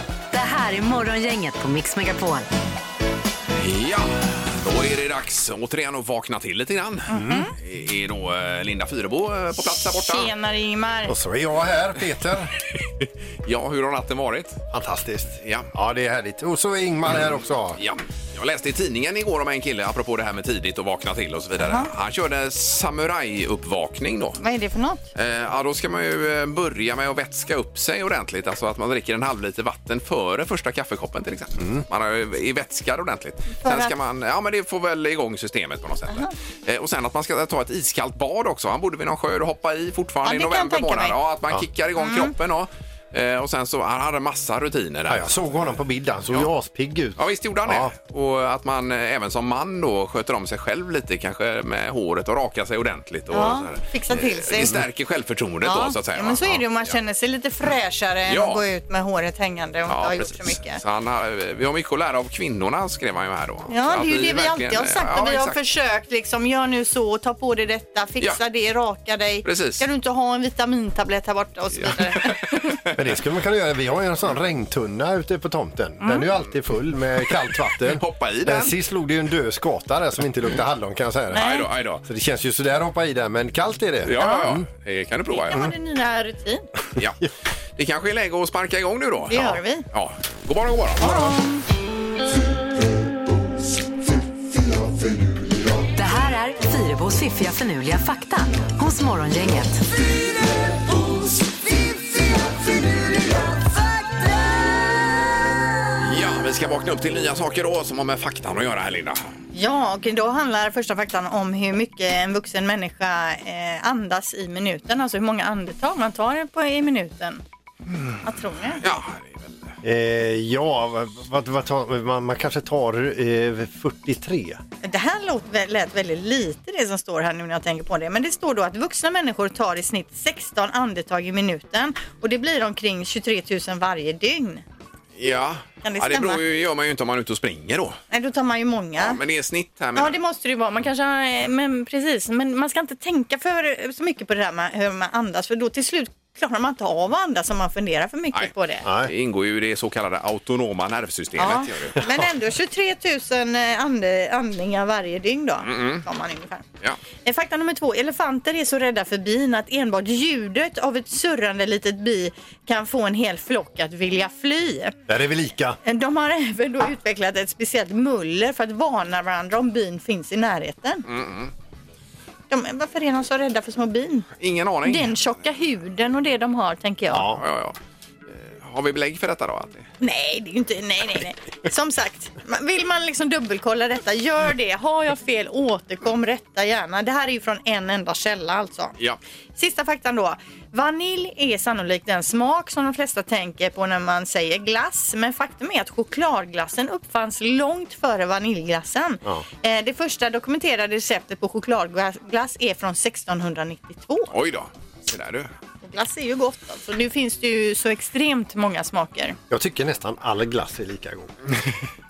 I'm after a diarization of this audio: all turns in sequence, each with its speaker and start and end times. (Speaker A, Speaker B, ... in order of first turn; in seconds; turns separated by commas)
Speaker A: 0.3-2.5, Speaker B: 3.6-10.3, Speaker C: 7.1-7.5, Speaker D: 7.1-7.5, Speaker C: 9.6-11.2, Speaker D: 11.1-12.5, Speaker B: 12.8-14.6, Speaker D: 14.7-17.8, Speaker B: 15.4-15.7, Speaker B: 17.8-24.4, Speaker C: 24.4-25.0, Speaker B: 25.1-45.4, Speaker D: 31.6-31.9, Speaker C: 33.6-33.9, Speaker C: 40.2-41.1, Speaker C: 42.0-42.3, Speaker D: 45.1-47.9, Speaker B: 47.2-57.0, Speaker C: 53.3-54.7, Speaker C: 55.6-60.8, Speaker B: 58.3-58.6, Speaker B: 59.9-65.6, Speaker C: 63.7-72.8, Speaker B: 69.4-69.8, Speaker B: 71.8-72.9, Speaker D: 73.0-81.5, Speaker C: 76.0-76.3, Speaker B: 77.9-78.7, Speaker C: 81.3-81.7, Speaker B: 81.3-82.0, Speaker D: 82.0-84.7, Speaker B: 84.0-85.7, Speaker C: 84.2-84.5, Speaker C: 85.3-86.6, Speaker B: 87.8-91.2, Speaker C: 89.3-89.9, Speaker C: 91.0-91.6, Speaker A: 96.0-99.8, Speaker B: 106.0-109.2, Speaker C: 109.5-117.4, Speaker C: 118.2-118.8, Speaker B: 118.8-119.8, Speaker D: 119.8-124.6, Speaker C: 124.8-134.6, Speaker B: 135.2-138.0, Speaker C: 135.8-136.4, Speaker C: 138.1-139.2, Speaker B: 139.0-140.2, Speaker C: 140.0-148.9, Speaker D: 148.8-149.1, Speaker B: 149.0-152.1, Speaker C: 151.4-156.6, Speaker B: 155.6-156.1, Speaker C: 157.2-165.0, Speaker D: 165.1-165.8, Speaker C: 165.8-171.1, Speaker B: 171.1-171.5, Speaker C: 172.5-174.3, Speaker B: 174.4-175.1, Speaker C: 174.8-177.3, Speaker D: 177.1-177.4, Speaker B: 177.3-177.8, Speaker B: 178.3-179.8, Speaker C: 180.0-188.9, Speaker C: 189.6-204.3, Speaker B: 204.3-205.5, Speaker C: 205.8-209.4, Speaker D: 209.5-211.6